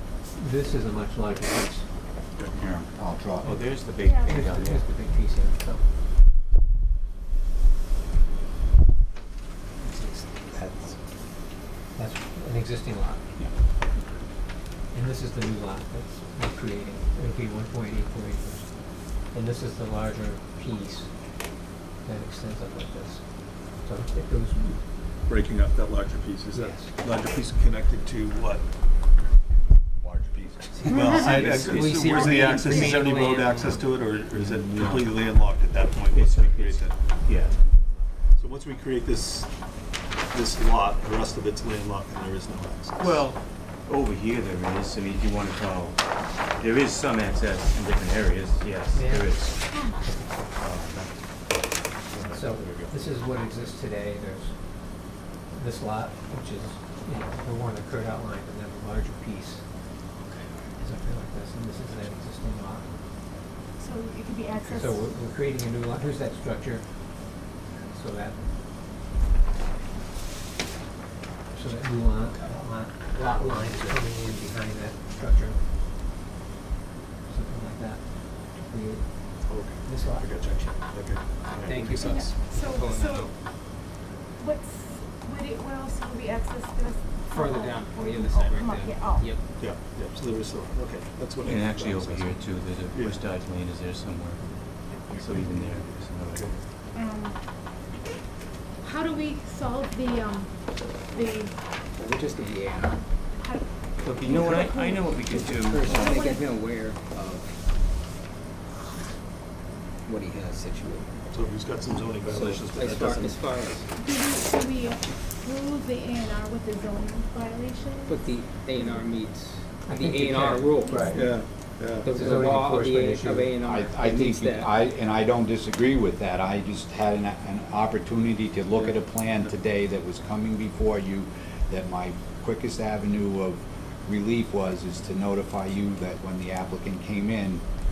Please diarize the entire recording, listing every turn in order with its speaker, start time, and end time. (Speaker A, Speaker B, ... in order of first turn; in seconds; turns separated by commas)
Speaker A: 0.3-1.8, Speaker B: 2.4-2.6, Speaker C: 2.5-3.6, Speaker D: 3.4-4.8, Speaker E: 4.0-4.5, Speaker A: 4.2-5.8, Speaker A: 11.9-13.2, Speaker A: 14.9-18.7, Speaker A: 19.3-21.1, Speaker A: 22.0-23.2, Speaker A: 23.8-24.8, Speaker B: 25.3-28.6, Speaker A: 26.5-26.9, Speaker B: 30.0-36.9, Speaker F: 30.9-33.8, Speaker D: 31.0-32.5, Speaker E: 32.1-32.9, Speaker D: 34.3-35.2, Speaker D: 36.1-37.9, Speaker B: 38.4-39.5, Speaker B: 40.3-43.2, Speaker D: 43.0-46.0, Speaker D: 46.6-49.6, Speaker A: 48.9-49.4, Speaker E: 49.7-50.0, Speaker D: 50.6-51.1, Speaker D: 52.1-53.0, Speaker A: 52.3-54.5, Speaker A: 55.5-59.6, Speaker A: 60.8-62.9, Speaker E: 63.8-65.0, Speaker A: 64.6-66.8, Speaker A: 67.8-68.5, Speaker A: 71.5-75.6, Speaker F: 73.3-73.9, Speaker A: 77.3-80.7, Speaker B: 79.5-82.1, Speaker F: 81.6-83.3, Speaker E: 81.9-83.3, Speaker E: 84.4-89.4, Speaker F: 87.3-89.4, Speaker B: 89.5-92.4, Speaker D: 91.4-94.4, Speaker B: 92.9-93.2, Speaker B: 95.1-96.6, Speaker D: 95.1-96.6, Speaker E: 96.9-97.4, Speaker E: 98.8-101.6, Speaker F: 102.2-102.7, Speaker E: 102.8-106.5, Speaker D: 104.0-106.3, Speaker F: 105.2-107.5, Speaker F: 110.0-111.1, Speaker B: 111.3-113.4, Speaker F: 112.2-113.8, Speaker E: 114.0-119.0, Speaker F: 118.1-121.1, Speaker A: 119.8-121.4, Speaker E: 120.8-121.4, Speaker B: 121.1-122.2, Speaker F: 122.0-124.7, Speaker A: 122.0-123.5, Speaker C: 123.6-137.6, Speaker B: 128.8-129.5